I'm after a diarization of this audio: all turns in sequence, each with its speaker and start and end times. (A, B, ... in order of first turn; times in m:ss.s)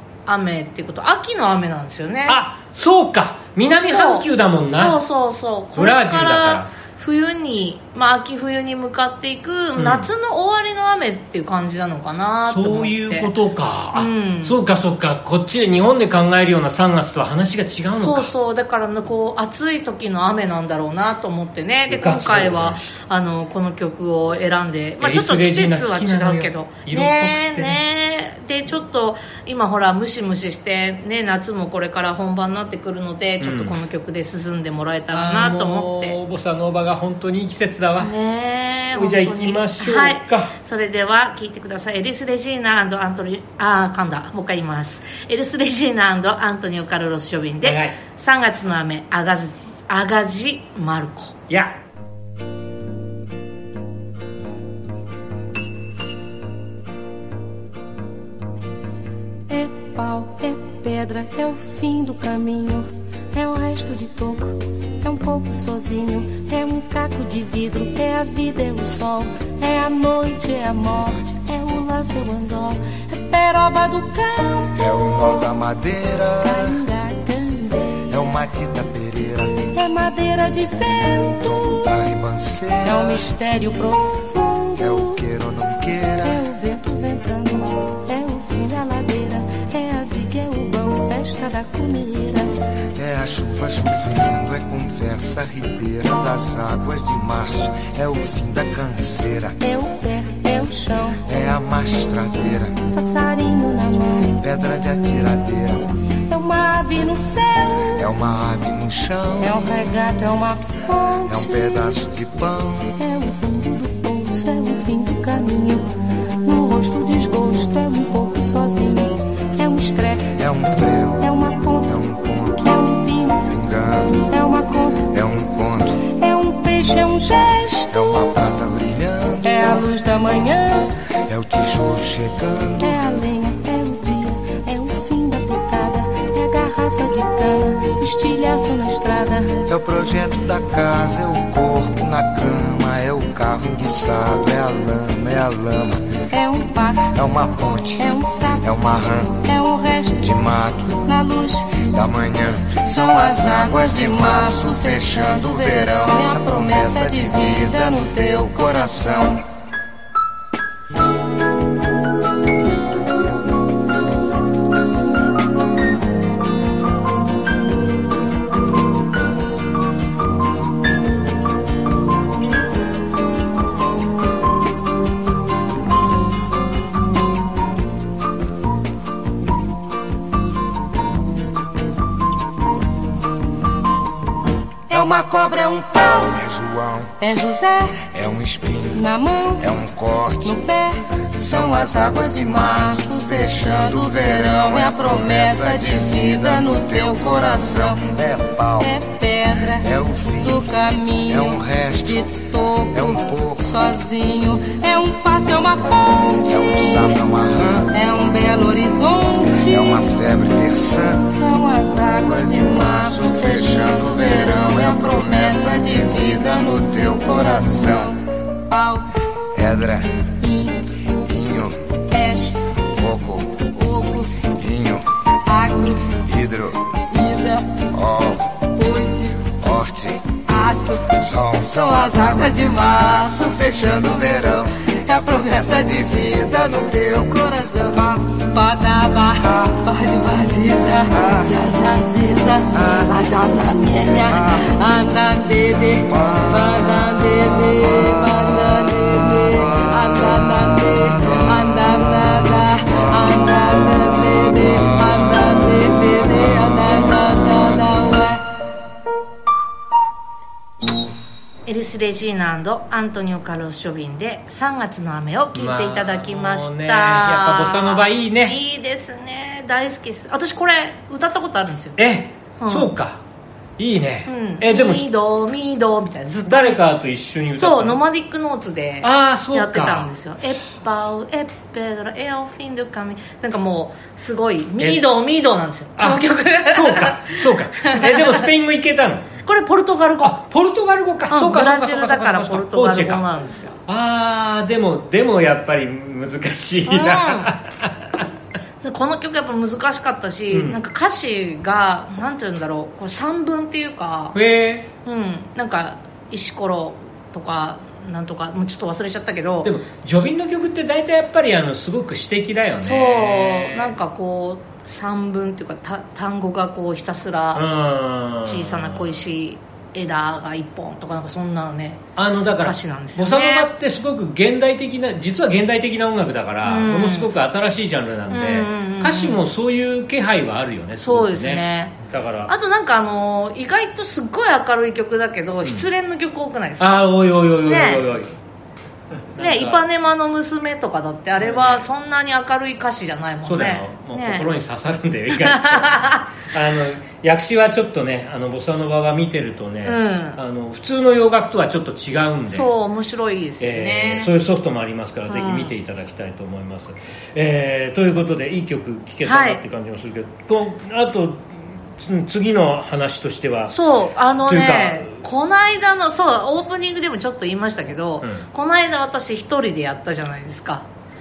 0:00.3-0:02.4 A
0:02.3-0:05.0 B
0:03.7-0:13.3 A
0:05.8-0:06.7 B
0:09.8-0:10.1 B
0:12.5-0:18.3 B
0:13.9-0:14.6 A
0:17.9-0:36.2 A
0:21.9-0:22.9 B
0:25.0-0:27.8 B
0:33.4-0:33.8 B
0:35.1-0:38.1 B
0:38.0-0:51.3 A
0:38.9-0:40.5 B
0:47.6-0:48.0 B
0:59.5-1:14.9 C
1:14.7-1:16.8 D
1:16.4-1:18.0 C
1:18.1-1:19.7 D
1:19.7-1:21.9 C
1:20.7-1:23.2 D
1:22.8-1:25.2 C
1:24.8-1:26.5 D
1:26.2-1:32.5 C
1:32.9-1:39.6 D
1:39.6-1:41.2 C
1:41.2-1:42.9 D
1:42.9-1:44.4 C
1:44.4-1:46.0 D
1:46.2-1:47.9 C
1:47.9-1:49.7 D
1:49.4-1:52.0 C
1:51.2-1:53.0 D
1:53.0-1:55.9 C
1:56.4-2:00.4 C
2:00.3-2:02.7 D
2:01.2-2:01.9 C
2:02.6-2:03.5 C
2:03.4-2:04.3 D
2:04.3-2:05.1 C
2:05.1-2:06.0 D
2:06.1-2:08.2 C
2:07.9-2:09.9 D
2:09.4-2:11.0 C
2:11.2-2:13.0 D
2:12.8-2:19.5 C
2:19.6-2:26.2 D
2:26.3-2:27.1 C
2:27.1-2:29.5 D
2:28.0-2:28.6 C
2:29.4-2:30.4 C
2:30.2-2:31.1 D
2:31.0-2:31.9 C
2:31.8-2:39.4 D
2:32.8-2:39.4 C
3:04.9-3:06.4 C
3:04.9-3:07.2 D
3:07.2-3:08.0 C
3:08.1-3:09.0 D
3:08.9-3:09.7 C
3:09.6-3:10.7 D
3:10.4-3:18.0 C
3:11.3-3:18.9 D
3:18.8-3:19.9 C
3:19.7-3:23.7 D
3:20.4-3:27.2 C
3:26.4-3:27.9 D
3:27.9-3:30.1 C
3:29.6-3:31.3 D
3:31.2-3:39.1 C
3:32.1-3:38.1 D
3:39.5-3:40.4 D
3:40.4-3:40.8 C
3:41.2-3:42.0 D
3:42.1-3:42.7 C
3:42.8-3:43.7 D
3:43.7-3:44.4 C
3:44.4-3:47.0 D
3:45.4-3:46.2 C
3:47.1-3:47.8 C
3:47.9-3:48.7 D
3:48.7-3:49.5 C
3:49.5-3:50.4 D
3:50.4-4:18.4 C
3:51.1-3:54.9 D
3:55.5-3:57.3 D
3:57.9-3:58.2 D
4:01.1-4:01.6 D
4:02.7-4:03.1 D
4:04.1-4:04.7 D
4:06.1-4:06.9 D
4:07.8-4:08.2 D
4:09.5-4:10.5 D
4:11.0-4:13.4 D
4:14.7-4:15.3 D
4:21.6-4:32.0 A
4:25.5-4:28.6 B
4:32.0-4:33.2 B
4:32.6-4:32.9 A
4:33.8-4:35.0 B
4:34.2-4:36.8 A
4:36.4-4:38.0 B
4:37.6-4:48.4 A
4:39.0-4:40.1 B
4:44.8-4:45.0 B
4:46.0-4:49.3 B
4:49.4-4:50.4 A
4:50.2-4:53.2 B
4:51.3-4:53.8 A
4:53.9-4:58.2 B
4:56.9-4:57.5 A
4:58.8-5:04.4 A
5:00.5-5:00.8 B
5:04.3-5:04.9 B
5:05.0-5:09.7 A
5:09.6-5:13.9 B
5:12.8-5:17.6 A
5:17.5-5:19.1 B
5:18.4-5:22.0 A
5:22.2-5:32.5 B
5:22.6-5:23.7 A
5:26.6-5:27.3 A
5:28.3-5:29.4 A
5:31.0-5:32.0 A
5:32.5-5:37.1 A
5:36.8-5:38.3 B
5:37.6-5:38.0 A
5:39.3-5:39.8 B
5:39.4-5:44.5 A
5:41.4-5:41.8 B
5:43.4-5:52.7 B
5:45.3-5:46.2 A
5:49.8-5:50.4 A
5:52.5-5:54.3 A
5:53.6-6:03.7 B
5:55.3-5:55.7 A
5:59.2-5:59.6 A
6:03.7-6:10.8 A
6:04.5-6:05.2 B